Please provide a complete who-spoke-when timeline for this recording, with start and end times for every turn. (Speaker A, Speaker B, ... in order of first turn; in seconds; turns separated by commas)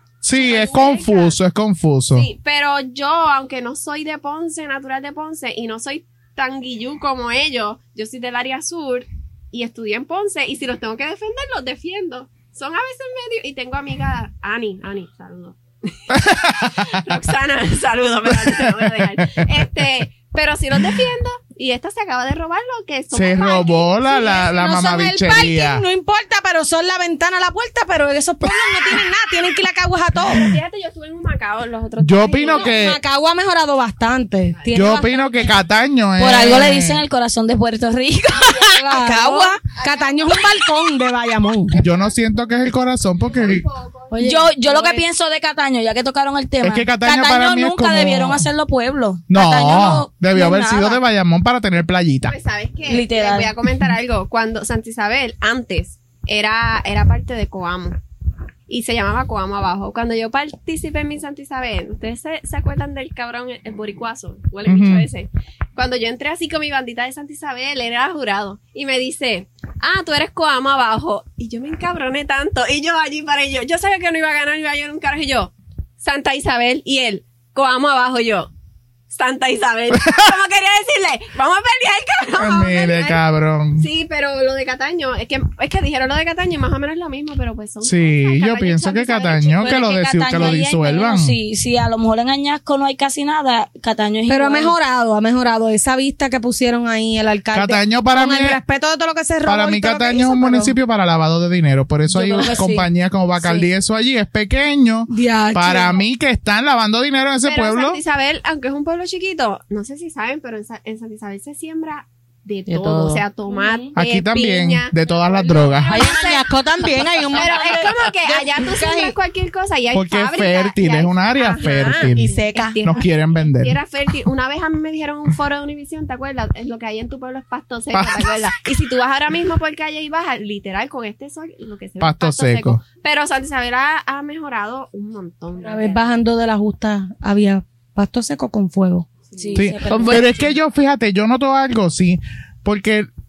Speaker A: 0.2-2.3, Speaker B: 0.3-1.4, Speaker B: 2.1-24.3, Speaker A: 16.1-17.2, Speaker A: 18.3-19.4, Speaker A: 23.1-25.8, Speaker C: 24.1-30.6, Speaker B: 30.3-32.8, Speaker A: 32.0-33.0, Speaker C: 32.4-35.5, Speaker B: 34.5-35.0, Speaker A: 34.7-37.0, Speaker D: 36.2-39.6, Speaker B: 38.4-38.8, Speaker C: 38.7-41.8, Speaker B: 39.6-40.5, Speaker B: 41.7-42.1, Speaker A: 41.8-43.6, Speaker B: 43.2-44.1, Speaker C: 44.1-45.0, Speaker D: 44.2-50.9, Speaker A: 46.6-48.4, Speaker A: 49.3-52.3, Speaker B: 52.2-58.0, Speaker D: 52.9-53.5, Speaker B: 58.7-78.5, Speaker A: 64.7-65.1, Speaker B: 79.1-83.2, Speaker A: 79.9-80.2, Speaker A: 82.4-83.9, Speaker B: 83.8-90.5, Speaker A: 87.8-91.3, Speaker D: 89.6-94.8, Speaker C: 94.3-100.7, Speaker A: 97.5-98.6, Speaker A: 99.4-108.0, Speaker D: 102.1-102.9, Speaker D: 103.4-103.7, Speaker C: 105.1-106.0, Speaker B: 107.4-116.5, Speaker E: 112.7-113.2, Speaker C: 113.6-113.8, Speaker A: 113.9-116.1, Speaker E: 115.8-119.2, Speaker B: 117.3-136.2, Speaker A: 119.9-123.8, Speaker E: 122.1-122.9, Speaker A: 127.9-128.3, Speaker A: 132.0-132.8, Speaker C: 135.6-139.1, Speaker B: 139.3-139.7, Speaker D: 139.4-140.4, Speaker A: 139.5-143.1